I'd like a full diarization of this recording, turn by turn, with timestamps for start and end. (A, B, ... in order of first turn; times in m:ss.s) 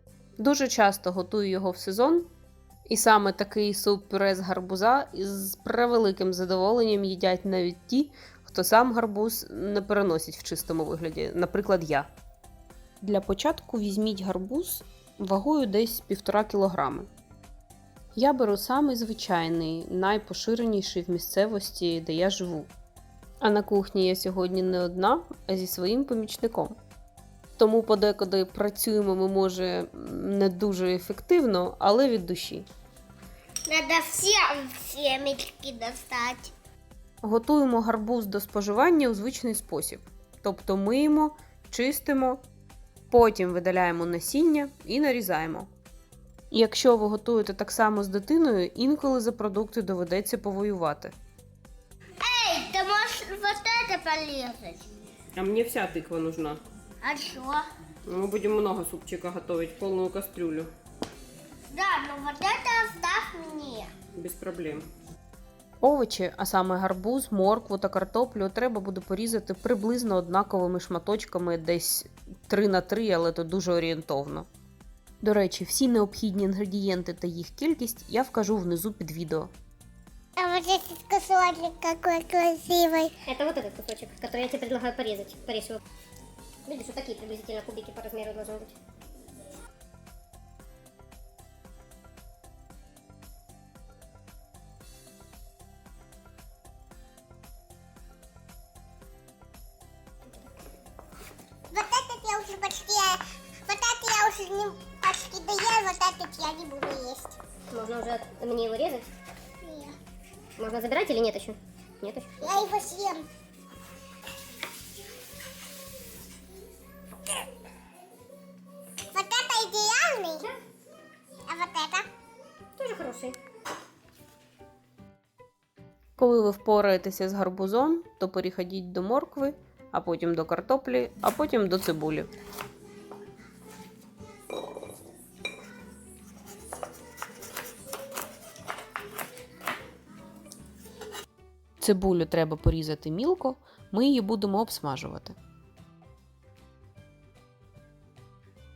0:00.4-0:02.3 A
0:02.9-0:12.1 A
0:13.0-0:17.1 A
0:18.2-0:22.7 A
0:23.4-0:26.8 A
0:27.6-0:32.7 A
0:33.7-0:36.5 B
0:37.2-0:42.4 A
0:43.1-0:45.7 A
0:46.5-0:51.2 A
0:52.2-0:54.9 B
0:55.3-0:56.6 A
0:57.0-0:57.7 B
0:58.0-1:00.7 A
1:01.7-1:03.9 B
1:04.1-1:04.9 A
1:05.8-1:14.5 A
1:15.2-1:19.5 A
1:20.4-1:23.2 B
1:23.2-1:25.8 C
1:26.7-1:28.8 C
1:41.7-1:47.4 B
1:47.7-1:49.1 C
1:49.6-1:50.0 B
1:50.6-1:52.7 C
1:52.4-1:53.3 B
1:59.1-2:00.5 B
2:01.5-2:02.1 B
2:02.8-2:03.4 C
2:06.2-2:12.3 A
2:21.8-2:25.4 A